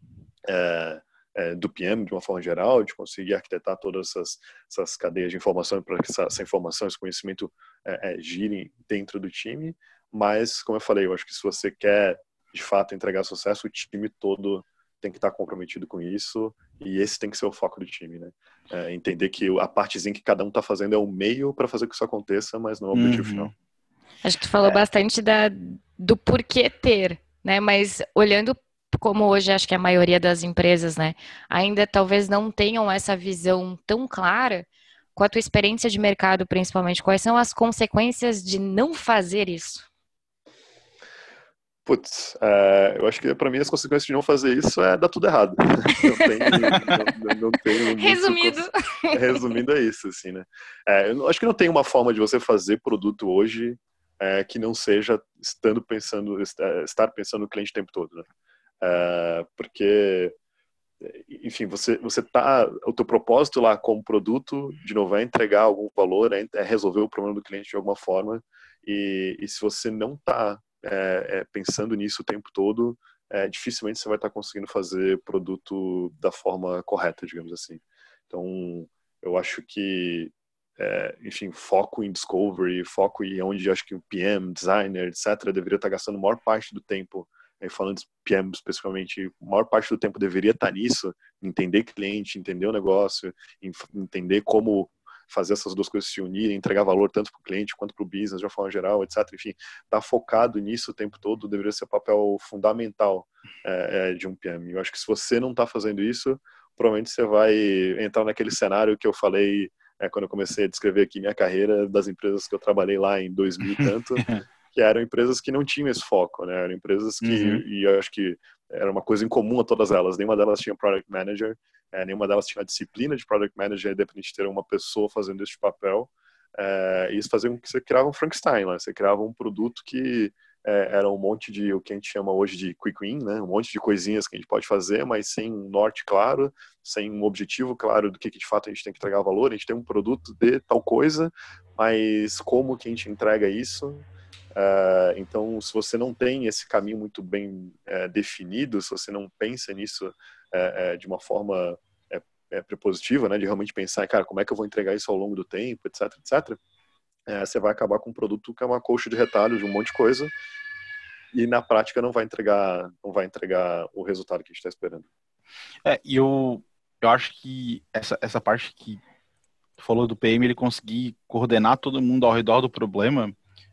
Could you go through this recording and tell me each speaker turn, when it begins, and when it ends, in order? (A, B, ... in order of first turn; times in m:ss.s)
0:00.4-0:23.5 A
0:22.9-0:23.5 B
0:24.2-0:39.8 C
0:41.8-0:48.6 A
0:46.0-0:47.0 C
0:48.0-0:49.4 C
0:49.1-0:58.3 A
0:58.8-1:00.3 A
1:01.0-2:36.6 A
1:53.8-1:54.4 B
1:57.2-1:57.6 B
2:37.3-2:40.3 A
2:41.3-2:45.0 A
2:45.8-2:49.0 B
2:49.8-2:53.4 B